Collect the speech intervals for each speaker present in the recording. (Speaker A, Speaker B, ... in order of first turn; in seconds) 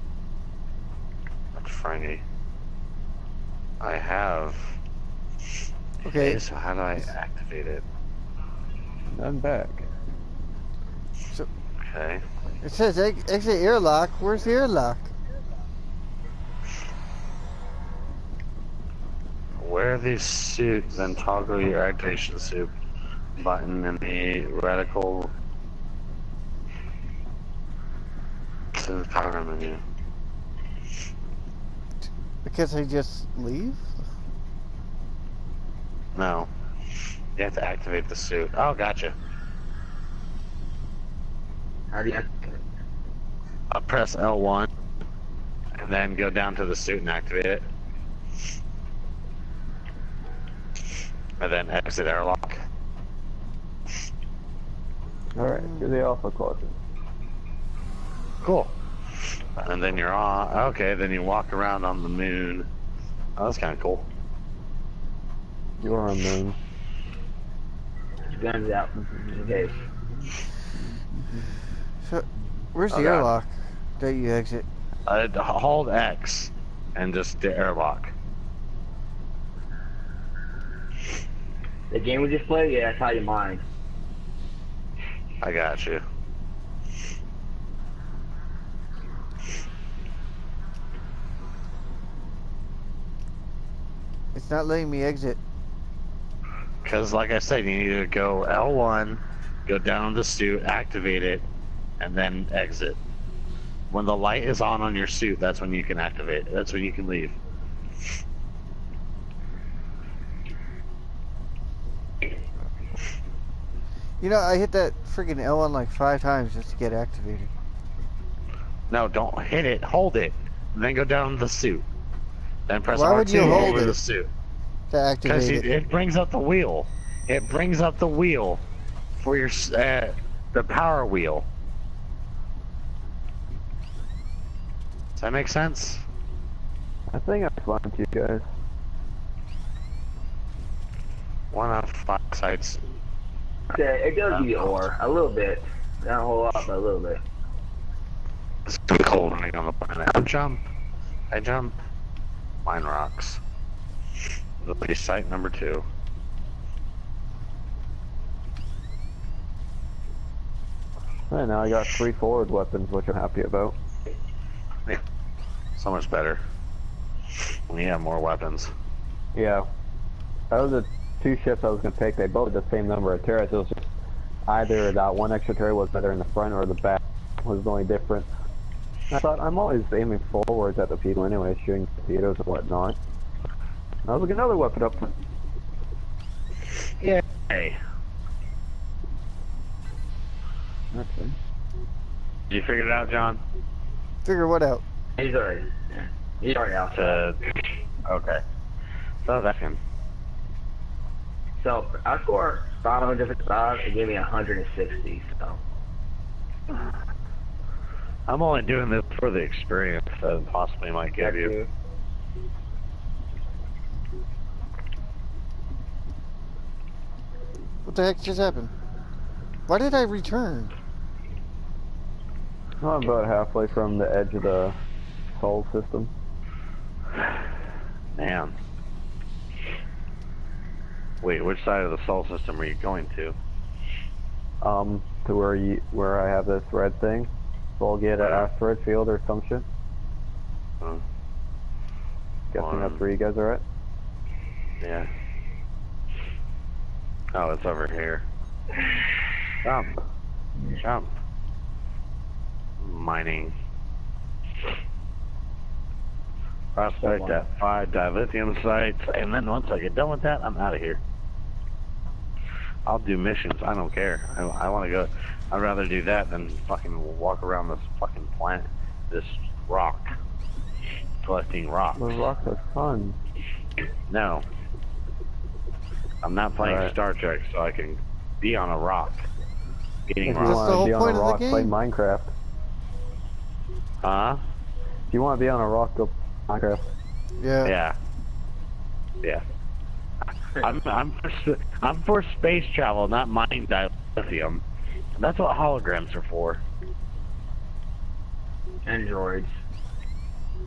Speaker A: 1.6-2.2, 3.8-4.8, 6.0-7.8, 11.8-12.2, 19.6-22.7, 23.4-25.3, 28.7-29.8, 36.1-36.5, 37.4-39.1, 43.7-44.7, 45.8-47.7, 51.4-52.6, 58.4-58.7, 59.6-62.7, 63.4-64.1, 72.9-73.3, 75.1-78.1, 85.4-86.0, 96.8-101.5, 102.0-103.0, 103.9-107.3, 118.9-121.8, 122.7-124.3, 125.2-128.6, 129.2-131.5, 135.2-136.0, 141.5-142.8, 144.3-144.9, 148.7-150.6, 151.3-151.8, 152.6-153.4, 154.6-155.8, 165.8-166.4, 167.7-168.7, 187.0-187.8, 192.5-193.4, 196.9-197.4, 198.1-198.4, 199.2-199.8, 208.3-211.5, 228.1-228.6, 231.2-233.3, 238.2-238.5, 242.6-243.0, 244.8-245.1, 247.3-248.2, 249.6-250.0, 250.7-251.1, 252.8-253.5, 256.8-261.0, 262.9-270.1, 271.2-272.2, 274.1-274.4, 276.2-279.3, 280.1-280.8, 284.0-284.4, 287.6-287.9, 290.6-294.6, 295.2-296.6
Speaker B: 6.0-6.4, 12.6-15.1, 32.4-33.9, 55.4-55.9, 72.0-74.6, 94.3-95.4, 114.2-117.5, 122.9-124.0, 124.9-125.7, 194.2-194.8, 217.8-218.7, 219.7-220.7, 280.4-281.7, 287.4-287.7
Speaker C: 9.1-9.9, 55.3-56.8, 65.8-66.6, 137.1-138.4, 161.3-163.8, 169.3-169.7, 170.5-173.9, 174.5-178.3, 179.1-183.0, 184.0-185.1, 190.9-191.3, 222.8-224.8, 225.3-226.1, 234.6-239.7, 242.5-243.6, 271.9-273.2, 276.6-276.9, 280.2-282.3, 285.1-286.8
Speaker D: 41.9-42.6, 68.3-69.8, 81.9-83.6, 143.7-147.2, 195.2-197.2, 201.6-205.6, 211.2-211.7, 257.0-257.4, 298.9-299.5